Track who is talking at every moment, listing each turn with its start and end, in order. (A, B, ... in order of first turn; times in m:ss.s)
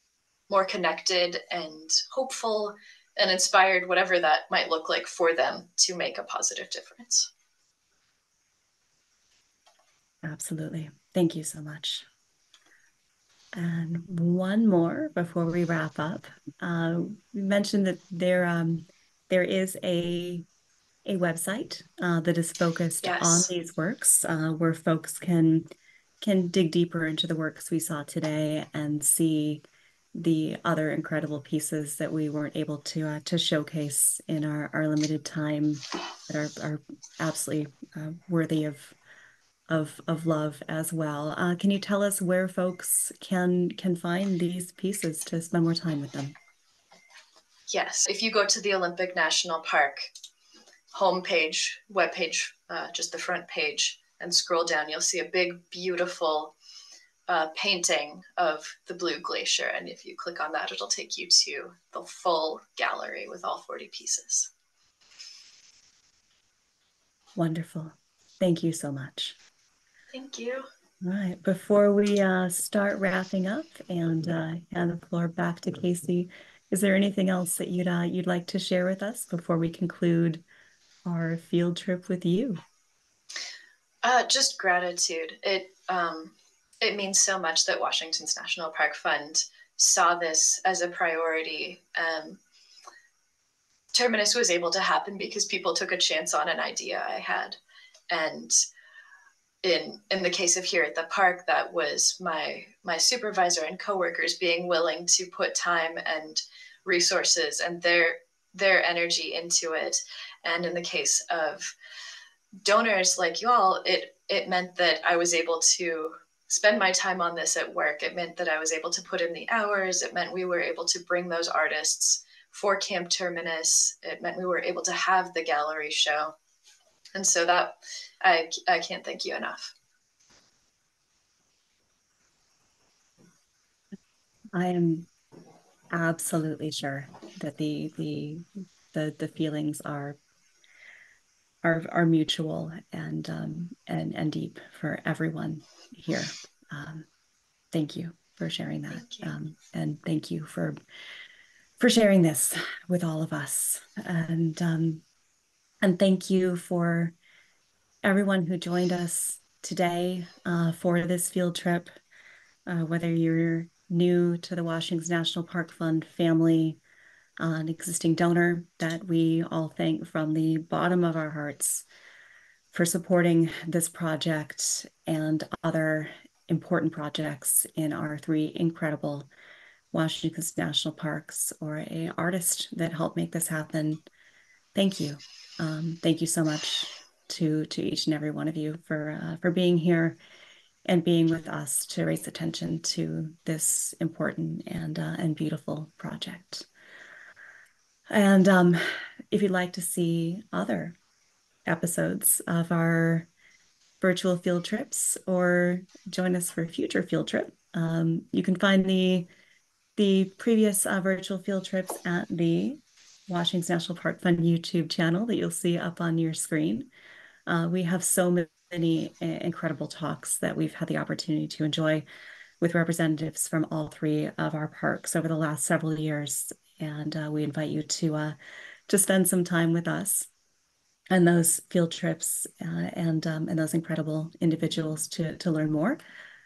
0:00.5-0:07.3 A
0:10.2-0:12.1 B
0:13.6-0:20.5 B
0:21.1-0:25.7 B
0:23.0-0:23.5 A
0:26.2-0:29.6 B
0:30.2-0:39.0 B
0:39.7-0:46.4 B
0:47.7-0:50.1 A
0:50.9-0:56.5 A
0:57.3-1:04.5 A
1:07.4-1:09.4 B
1:10.1-1:10.7 A
1:11.0-1:20.4 B
1:21.0-1:22.6 B
1:24.0-1:32.4 A
1:33.9-1:37.6 A
1:38.1-1:38.6 A
1:39.6-1:51.7 A
1:52.6-2:06.4 A
2:07.2-2:09.7 A
2:14.5-2:15.1 B
2:15.9-2:20.2 B
2:21.6-2:27.1 B
2:27.7-2:30.8 B
2:28.9-2:29.4 A
2:31.8-2:35.0 B
2:35.8-2:37.1 B
2:38.0-2:41.9 B
2:42.7-2:46.8 B
2:47.4-2:51.9 B
2:52.7-2:59.3 B
2:59.9-3:04.0 B
3:04.8-3:10.2 B
3:10.9-3:16.7 B
3:18.1-3:21.0 B
3:21.7-3:23.3 B
3:24.0-3:29.3 B
3:30.0-3:36.9 B
3:37.5-3:42.0 B
3:42.6-3:48.4 B
3:48.9-3:50.3 B
3:51.1-3:56.0 B